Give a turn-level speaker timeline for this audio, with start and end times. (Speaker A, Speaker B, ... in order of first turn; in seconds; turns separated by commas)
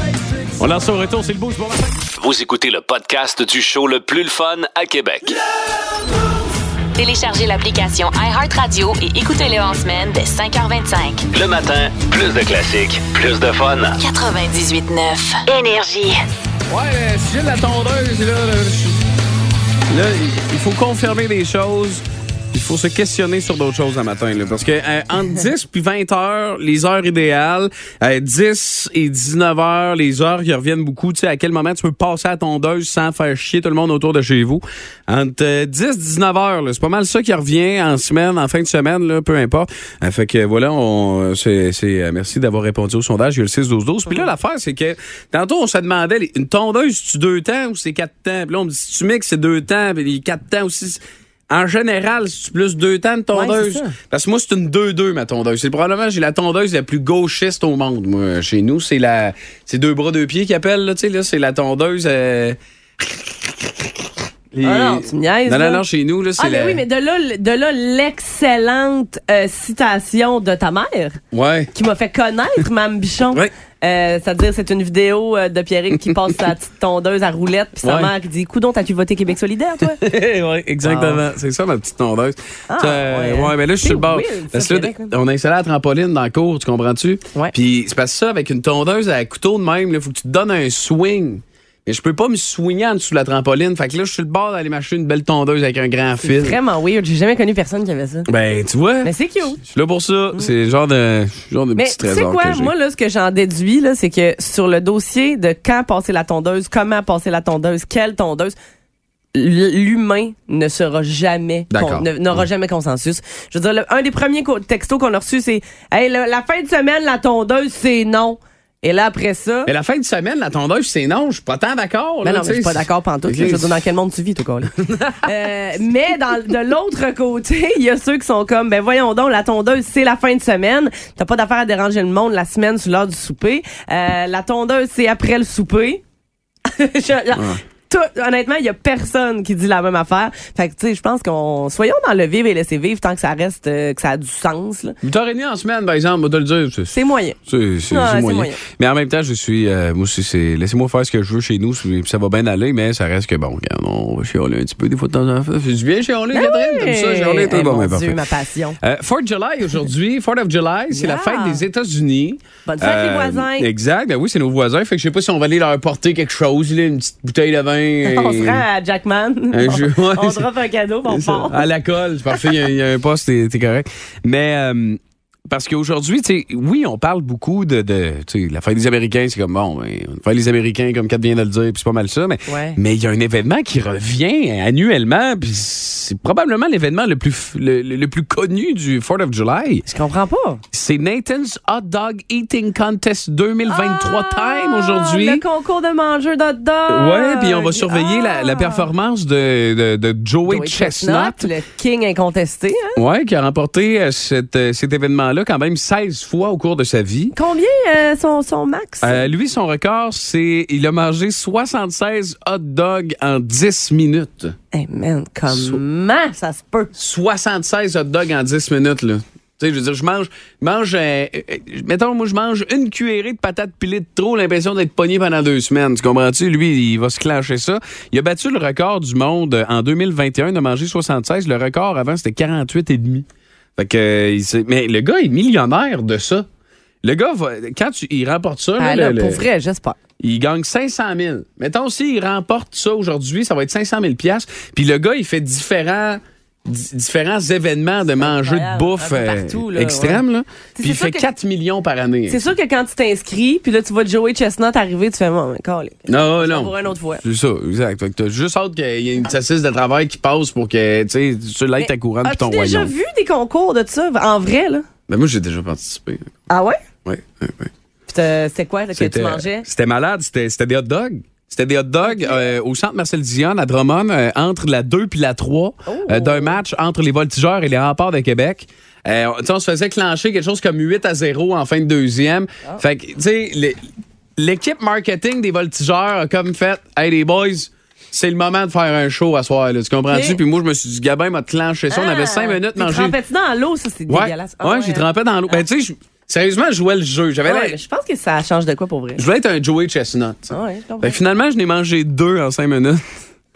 Speaker A: 0.6-2.0, Speaker B: 2.1-5.4, Speaker C: 6.9-11.2, Speaker B: 11.3-14.0, Speaker C: 14.0-16.2, Speaker A: 16.7-19.0, Speaker A: 19.9-66.8, Speaker D: 53.3-54.0, Speaker D: 64.6-65.8, Speaker D: 66.4-71.2, Speaker A: 71.3-71.7, Speaker D: 71.7-80.0, Speaker A: 77.8-78.1, Speaker A: 79.8-96.6, Speaker D: 80.8-81.2, Speaker D: 82.7-85.1, Speaker D: 96.2-98.3, Speaker A: 98.3-102.7, Speaker D: 99.0-99.6, Speaker D: 101.8-108.5, Speaker D: 109.3-119.7, Speaker A: 111.7-112.1, Speaker A: 119.7-123.8, Speaker D: 122.2-136.0, Speaker A: 124.8-125.3, Speaker D: 136.7-144.9, Speaker A: 137.3-137.6, Speaker A: 145.0-158.2, Speaker D: 146.9-147.4, Speaker D: 147.9-148.6, Speaker D: 156.3-158.8, Speaker A: 158.8-168.6, Speaker D: 160.9-161.6, Speaker D: 162.6-163.7, Speaker D: 168.0-171.7, Speaker A: 169.5-170.5, Speaker A: 171.1-189.9, Speaker D: 182.5-182.8, Speaker D: 189.9-190.6, Speaker A: 190.7-195.4, Speaker D: 193.7-198.9, Speaker A: 196.9-201.5, Speaker D: 200.5-203.0, Speaker A: 203.0-207.3, Speaker D: 207.3-209.3, Speaker A: 209.0-214.6, Speaker D: 214.7-216.9, Speaker A: 215.5-215.8, Speaker A: 216.9-233.2, Speaker A: 233.8-236.5, Speaker A: 237.0-239.4, Speaker D: 238.8-240.0, Speaker A: 240.2-252.5, Speaker D: 248.2-250.2, Speaker D: 250.8-251.2, Speaker D: 252.3-257.2, Speaker A: 256.1-262.9, Speaker D: 261.8-264.9, Speaker A: 265.1-266.3, Speaker D: 266.5-266.8, Speaker A: 267.0-267.7, Speaker D: 268.1-269.6, Speaker A: 268.9-283.8, Speaker D: 272.0-272.4, Speaker D: 275.9-276.6, Speaker A: 284.4-293.1, Speaker D: 290.1-290.4, Speaker D: 291.9-295.1, Speaker A: 294.1-297.8, Speaker D: 297.4-299.2, Speaker A: 299.2-303.0, Speaker D: 300.5-301.2